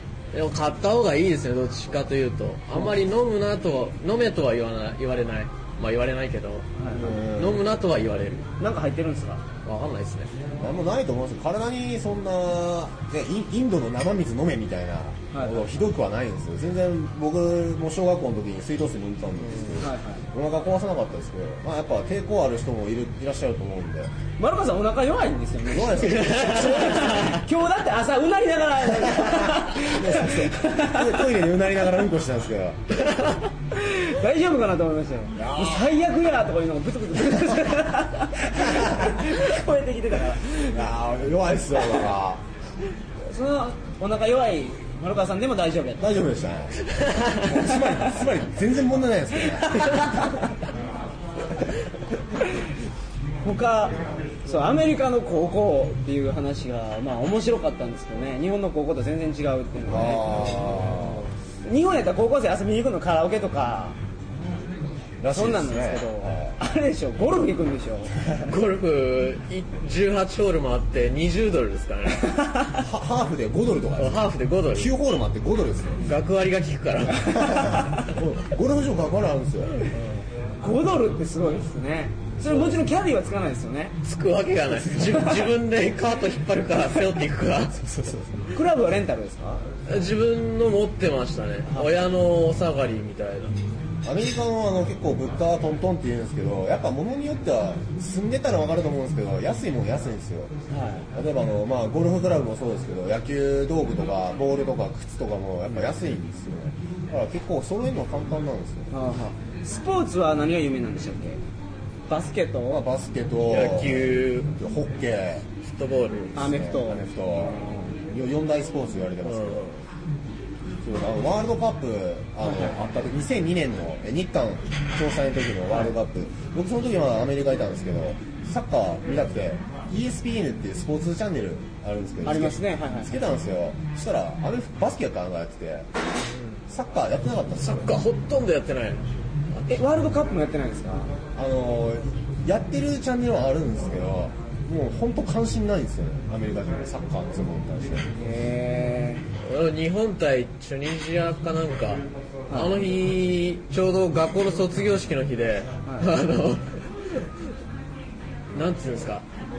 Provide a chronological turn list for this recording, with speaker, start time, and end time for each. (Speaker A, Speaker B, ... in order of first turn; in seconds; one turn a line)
Speaker A: 0.3-8.4
Speaker B: 6.8-7.1
Speaker C: 6.9-7.7
Speaker B: 8.6-9.4
Speaker A: 9.6-10.3
Speaker C: 10.6-24.1
Speaker B: 15.3-15.7
Speaker A: 19.4-19.8
Speaker B: 19.8-20.2
Speaker B: 24.4-31.1
Speaker C: 25.7-27.1
Speaker A: 25.9-27.4
Speaker C: 29.1-32.9
Speaker B: 33.7-40.8
Speaker C: 35.3-35.9
Speaker C: 38.5-39.2
Speaker C: 40.5-42.4
Speaker B: 43.2-46.1
Speaker C: 46.0-50.1
Speaker B: 49.7-50.4
Speaker B: 53.4-60.7
Speaker C: 59.9-61.3
Speaker B: 61.6-64.0
Speaker C: 65.2-66.6
Speaker B: 65.3-68.1
Speaker A: 68.4-72.3
Speaker B: 72.3-72.8
Speaker C: 72.7-76.0
Speaker A: 74.0-74.9
Speaker A: 76.0-77.7
Speaker C: 77.3-79.9
Speaker A: 79.9-80.2
Speaker B: 80.6-84.0
Speaker A: 84.0-88.4
Speaker B: 85.0-85.4
Speaker B: 88.5-89.6
Speaker A: 89.9-93.5
Speaker B: 91.7-92.0
Speaker C: 94.0-100.5
Speaker B: 100.7-101.1
Speaker C: 101.1-108.9
Speaker B: 108.9-111.4
Speaker B: 112.1-112.8
Speaker C: 112.7-115.5
Speaker A: 113.4-114.5
Speaker A: 115.6-116.5
Speaker C: 116.3-119.7
Speaker B: 116.3-117.0
Speaker B: 117.6-117.9
Speaker A: 119.2-119.8
Speaker C: 120.8-135.9
Speaker B: 122.4-122.8
Speaker B: 132.2-133.2
Speaker A: 136.3-136.6
Speaker C: 136.7-137.9
Speaker A: 137.6-139.7
Speaker B: 139.7-141.1
Speaker C: 141.3-148.1
Speaker B: 148.1-149.2
Speaker A: 149.3-157.2
Speaker B: 152.5-152.8
Speaker B: 155.8-156.1
Speaker A: 158.5-159.2